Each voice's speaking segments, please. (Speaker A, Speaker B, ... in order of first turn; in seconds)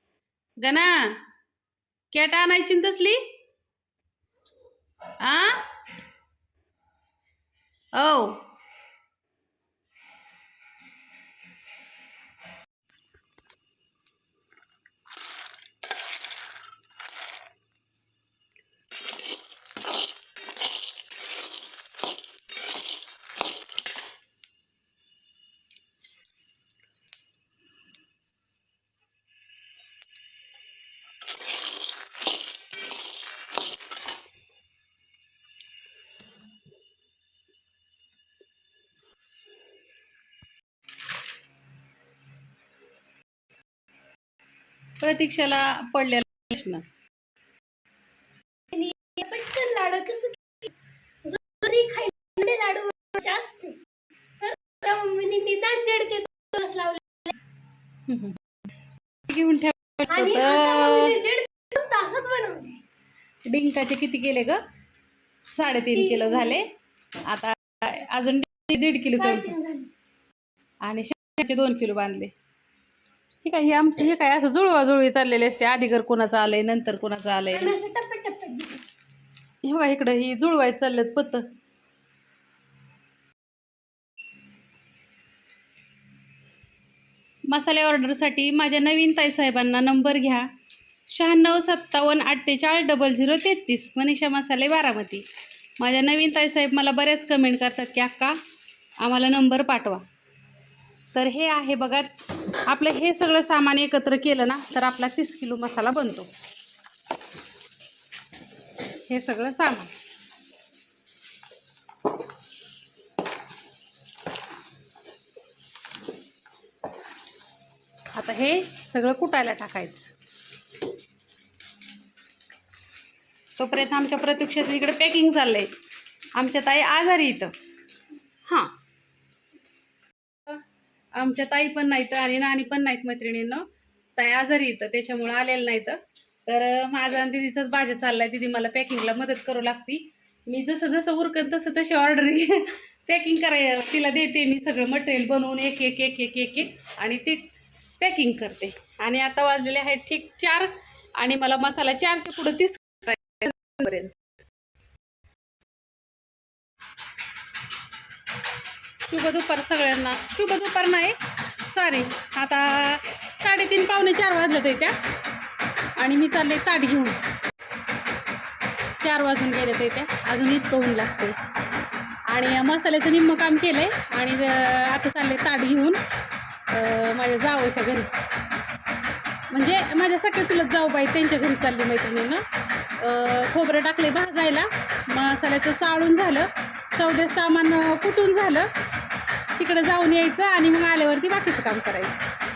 Speaker A: 0.6-0.9, 2.1-3.2, 5.2-5.5, 8.0-8.3, 45.0-46.8, 58.1-58.4, 59.3-61.2, 63.5-64.6, 65.5-66.7, 67.3-69.5, 70.8-72.3, 73.4-77.8, 79.6-81.4, 87.5-90.5, 91.1-95.2, 95.8-98.3, 99.0-100.0, 101.1-102.1, 102.7-106.3, 109.1-109.9, 118.1-120.1, 123.6-125.7, 126.3-127.5, 131.2-133.6, 134.2-147.5, 148.0-154.1, 159.0-161.2, 161.7-165.0, 166.0-167.2, 169.0-171.3, 172.3-176.0, 176.7-178.1, 179.5-182.4, 183.0-188.7, 189.6-192.2
Speaker B: 48.7-50.4, 51.3-53.8, 54.4-57.3, 60.1-62.8, 66.0-66.2, 69.3-69.9, 77.5-78.8